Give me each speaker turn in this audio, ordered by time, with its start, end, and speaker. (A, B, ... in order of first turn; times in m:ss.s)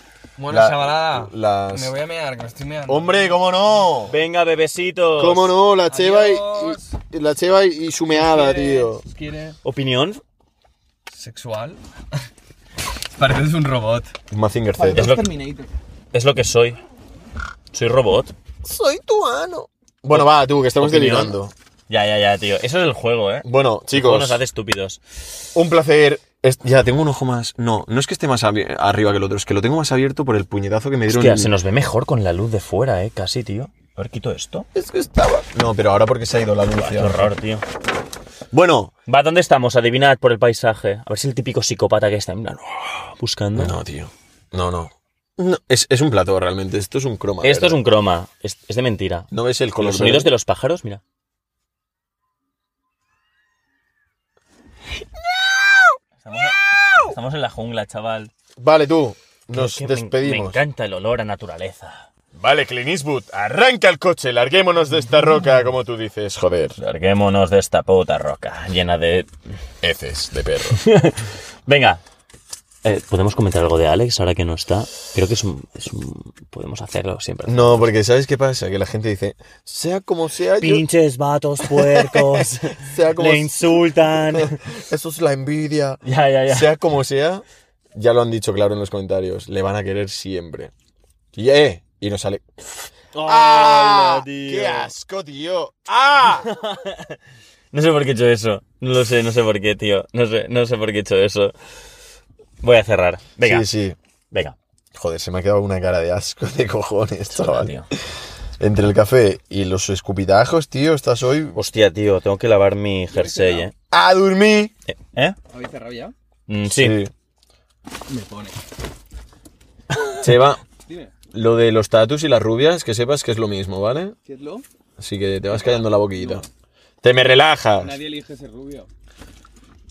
0:00.4-0:03.4 A
0:00.5-0:01.9 B
0:02.9-0:04.1 B
0:04.1-0:05.6 C
0:05.2-0:09.0 B
0:05.9-0:07.0 A
0:08.1-0:09.6 A
0:09.6-0:10.2 C
0:11.1-0:11.8 A
0:13.1-0:14.1 A
0:14.3-0:15.2 B
0:14.9-0:15.4 C
0:15.0-0:15.7 A
0:16.1-0:16.8 C
0:17.7-0:18.3 C
0:18.6-0:21.5 B
0:20.1-0:21.3 C
0:21.9-0:25.0 C
0:23.4-0:24.4 B
0:25.5-0:31.5 B
0:31.1-0:34.7 C
0:34.7-0:37.3 B
0:36.8-0:37.6 C
0:38.5-0:38.9 B
0:39.1-0:43.7 C
0:43.6-0:47.8 B
0:47.4-0:49.3 C
0:49.3-0:50.3 B
0:49.8-0:51.0 C
0:56.2-0:58.3 C
0:58.6-1:00.6 B
0:59.5-1:02.1 C
1:02.3-1:06.8 B
1:06.8-1:09.3 C
1:09.8-1:10.8 B
1:10.7-1:12.0 C
1:12.8-1:17.9 C
1:17.4-1:20.8 B
1:20.6-1:24.7 C
1:21.6-1:27.4 B
1:26.0-1:26.7 C
1:27.9-1:30.7 B
1:31.3-1:36.6 B
1:33.1-1:34.9 C
1:36.4-1:37.2 C
1:37.7-1:41.5 C
1:42.6-1:43.6 C
1:43.4-1:44.0 B
1:44.9-1:47.7 B
1:47.3-1:47.8 C
1:48.6-1:51.6 B
1:51.6-1:53.7 C
1:53.1-1:53.7 A
1:53.9-1:54.7 B
1:54.9-1:55.4 C
1:55.5-1:56.1 A
1:56.5-1:57.0 C
1:56.7-1:57.1 B
1:58.1-1:58.6 A
2:00.2-2:00.6 B
2:00.9-2:01.1 A
2:01.3-2:04.2 B
2:04.2-2:04.6 A
2:05.0-2:06.4 B
2:05.5-2:06.5 A
2:07.0-2:08.0 B
2:07.8-2:08.9 A